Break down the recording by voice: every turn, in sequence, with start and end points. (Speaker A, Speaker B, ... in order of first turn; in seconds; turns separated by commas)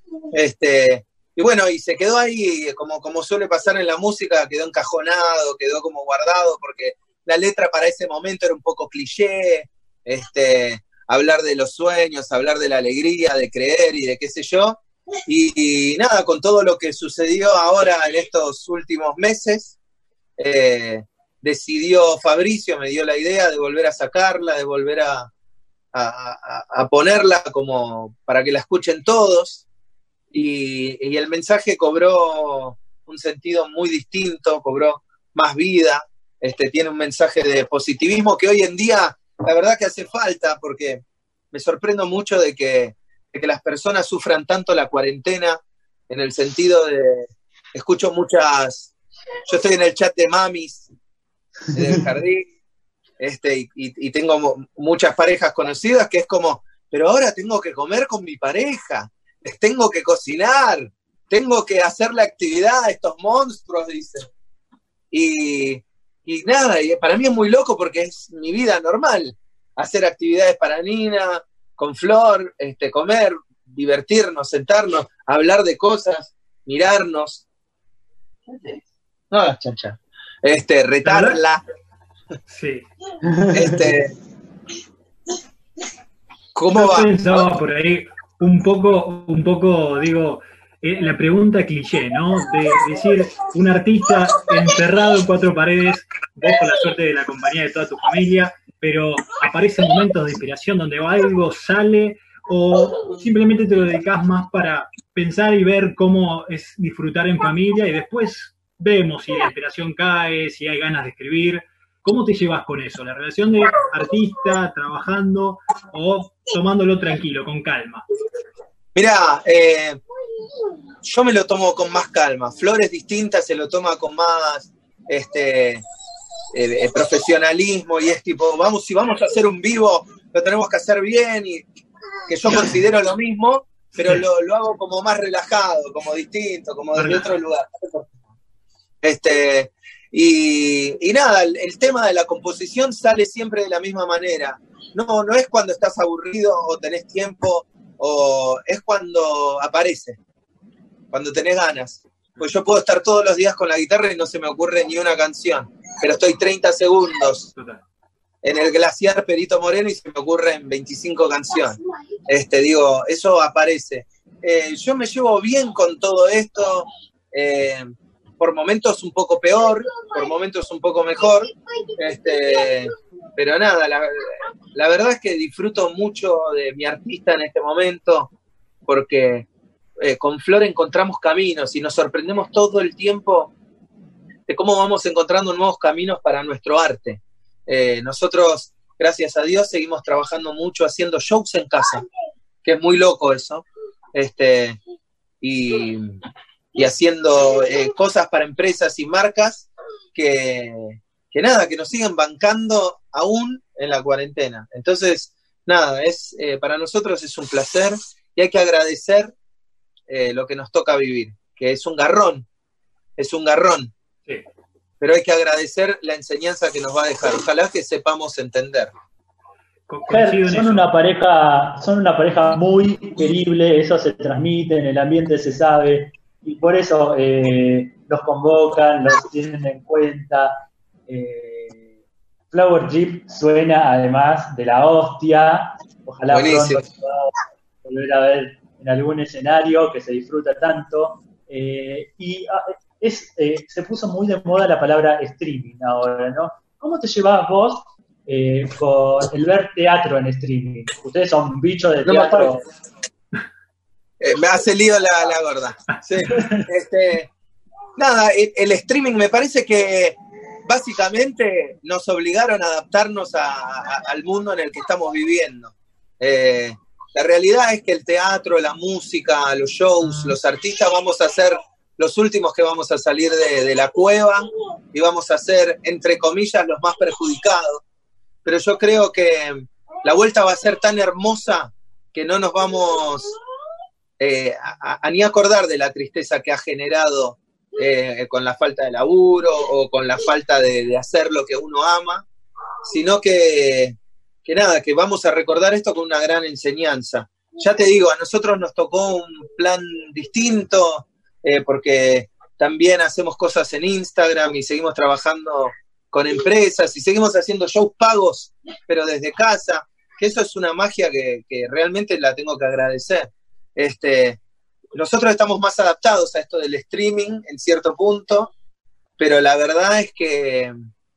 Speaker A: 0.3-19.8, Speaker A: 20.4-25.3, Speaker A: 25.9-29.6, Speaker A: 30.3-48.9, Speaker A: 49.5-50.9, Speaker A: 51.7-52.5, Speaker A: 53.2-64.3, Speaker A: 65.1-77.5, Speaker A: 79.3-81.6, Speaker B: 81.0-81.4, Speaker B: 82.5-82.9, Speaker C: 83.2-83.8, Speaker A: 83.5-84.1, Speaker A: 86.5-87.5, Speaker B: 86.7-118.1, Speaker A: 119.0-120.0, Speaker A: 121.0-125.8, Speaker A: 126.5-131.7, Speaker A: 132.3-138.1, Speaker B: 137.0-137.2, Speaker A: 139.0-150.2, Speaker A: 151.1-157.5, Speaker B: 157.6-157.8, Speaker A: 158.4-178.3, Speaker A: 178.9-179.5, Speaker A: 180.0-183.5, Speaker A: 184.5-192.1, Speaker A: 192.6-194.8, Speaker A: 195.4-196.2, Speaker A: 196.8-209.3, Speaker A: 210.1-212.5, Speaker A: 213.2-213.9, Speaker A: 215.0-218.9, Speaker B: 219.9-220.9, Speaker C: 220.1-231.9, Speaker C: 232.5-237.3, Speaker A: 236.3-236.8, Speaker C: 237.8-252.7, Speaker A: 252.1-252.5, Speaker A: 254.2-257.3, Speaker C: 256.3-256.6, Speaker A: 258.0-277.8, Speaker A: 278.4-283.4, Speaker A: 284.2-292.2, Speaker A: 292.8-314.4, Speaker A: 314.9-318.5, Speaker A: 319.2-320.7